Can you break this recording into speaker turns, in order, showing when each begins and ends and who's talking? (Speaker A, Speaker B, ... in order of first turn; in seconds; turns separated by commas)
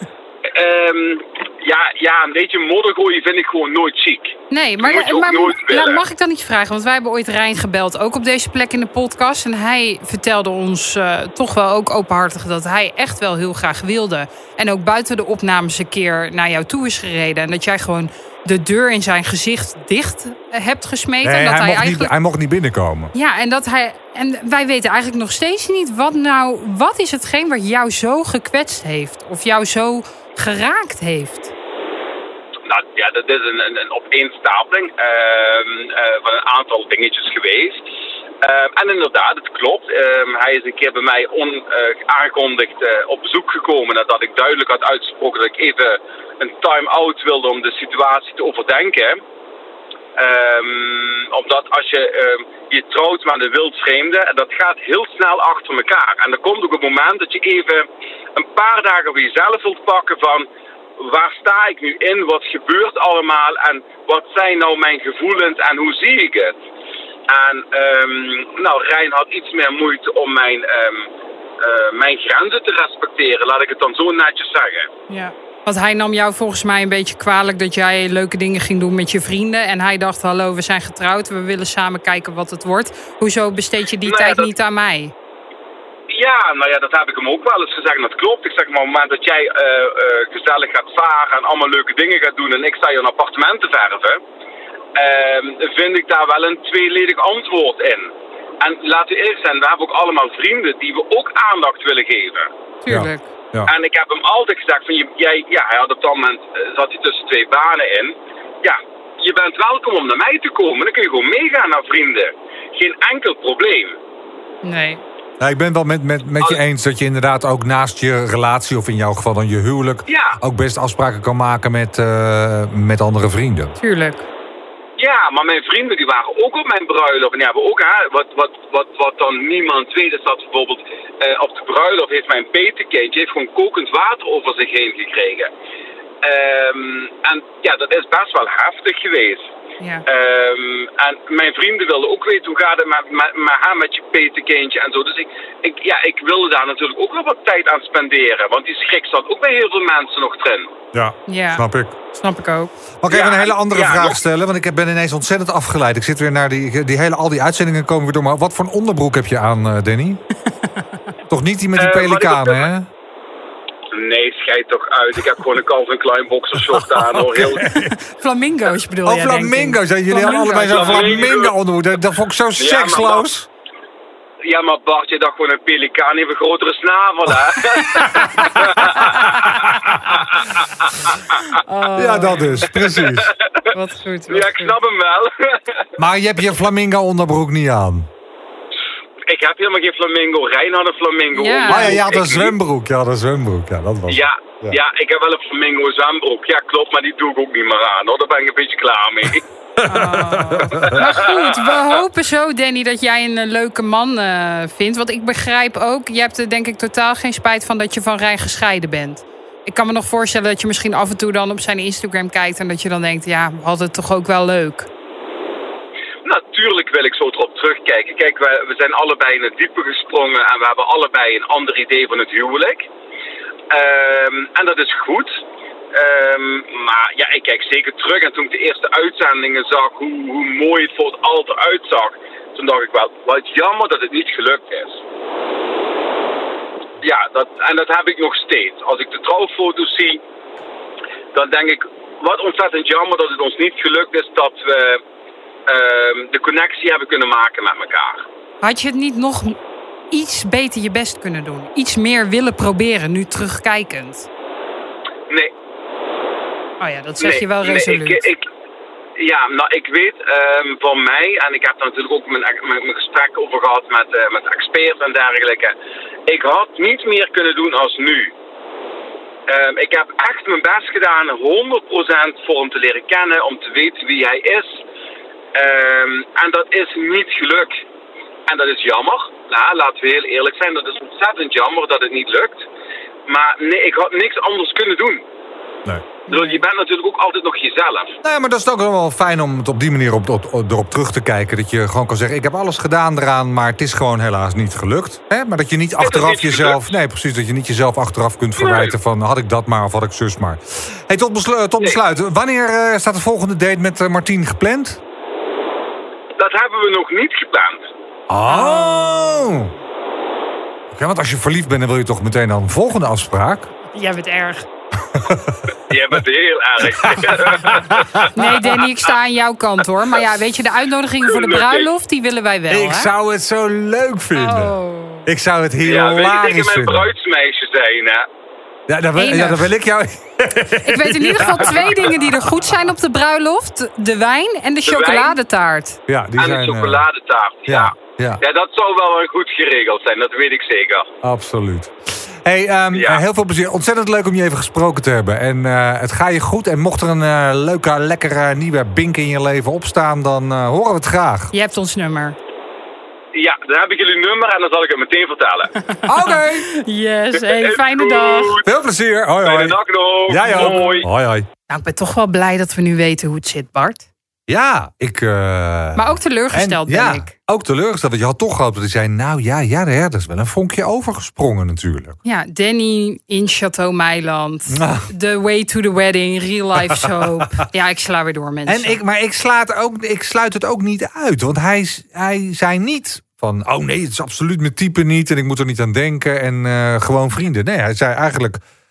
Speaker A: 0.5-6.0, Speaker B: 4.5-22.1, Speaker C: 21.2-23.1, Speaker B: 23.1-31.5, Speaker A: 32.7-37.9, Speaker A: 38.4-49.2, Speaker A: 50.2-66.6, Speaker A: 67.3-74.9, Speaker B: 75.1-85.1, Speaker A: 84.0-84.5, Speaker A: 86.1-94.2, Speaker A: 95.0-102.5, Speaker B: 102.8-103.3, Speaker C: 102.9-103.7, Speaker A: 103.7-114.0, Speaker B: 114.6-115.0, Speaker C: 115.4-123.8, Speaker A: 120.1-120.4, Speaker B: 123.8-124.3, Speaker A: 125.0-135.5, Speaker A: 136.2-139.5, Speaker A: 140.1-150.7, Speaker C: 150.9-152.0, Speaker B: 151.3-152.7, Speaker C: 153.0-160.2, Speaker A: 153.1-154.2, Speaker C: 161.3-162.9, Speaker A: 161.8-162.7, Speaker A: 163.9-167.7, Speaker C: 167.0-168.0, Speaker B: 167.6-171.0, Speaker C: 169.1-173.5, Speaker A: 170.7-171.5, Speaker A: 172.6-173.2, Speaker A: 174.4-180.7, Speaker B: 178.0-178.5, Speaker C: 178.9-180.1, Speaker B: 181.5-182.7, Speaker C: 181.9-183.3, Speaker A: 182.8-183.7, Speaker B: 183.7-184.8, Speaker A: 184.3-185.9, Speaker C: 186.0-188.1, Speaker A: 189.3-192.6, Speaker B: 191.3-192.0, Speaker C: 191.7-194.8, Speaker A: 194.1-199.4, Speaker C: 199.8-201.0, Speaker B: 199.9-214.9, Speaker A: 200.8-201.8, Speaker A: 216.2-222.9, Speaker A: 223.7-225.4, Speaker A: 225.9-235.0, Speaker A: 237.0-240.2, Speaker A: 241.3-245.0, Speaker A: 245.7-248.2, Speaker B: 248.6-249.6, Speaker B: 250.1-254.3, Speaker B: 256.8-258.3, Speaker A: 257.2-258.4, Speaker A: 259.2-265.7, Speaker A: 266.3-268.3, Speaker A: 269.5-274.8, Speaker A: 275.5-277.8, Speaker A: 278.5-282.6, Speaker A: 283.3-285.2, Speaker B: 286.3-286.6, Speaker A: 286.3-288.2, Speaker C: 288.2-305.0, Speaker A: 296.0-296.8, Speaker A: 298.6-298.9, Speaker A: 306.4-307.9, Speaker C: 308.3-309.7, Speaker B: 308.5-309.4, Speaker C: 310.9-313.7, Speaker B: 313.9-314.7, Speaker C: 315.1-315.6, Speaker A: 315.9-318.0, Speaker C: 316.9-318.5, Speaker B: 318.3-323.1, Speaker A: 321.2-321.9, Speaker C: 322.7-327.1, Speaker B: 324.3-325.3, Speaker A: 325.8-328.3, Speaker C: 328.9-332.2, Speaker B: 329.2-329.7, Speaker B: 330.8-336.0, Speaker A: 334.9-335.4, Speaker C: 336.1-337.0, Speaker A: 336.4-341.1, Speaker C: 337.7-338.4, Speaker C: 341.2-351.5, Speaker A: 342.9-343.2, Speaker B: 351.5-352.4, Speaker A: 353.3-355.7, Speaker B: 355.9-358.6, Speaker C: 356.1-356.7, Speaker A: 357.3-358.7, Speaker C: 358.6-361.5, Speaker A: 359.4-361.1, Speaker B: 360.4-361.0, Speaker B: 361.7-364.1, Speaker C: 364.5-372.2, Speaker B: 366.0-367.3, Speaker B: 372.2-379.0, Speaker C: 374.7-375.1, Speaker C: 378.7-388.6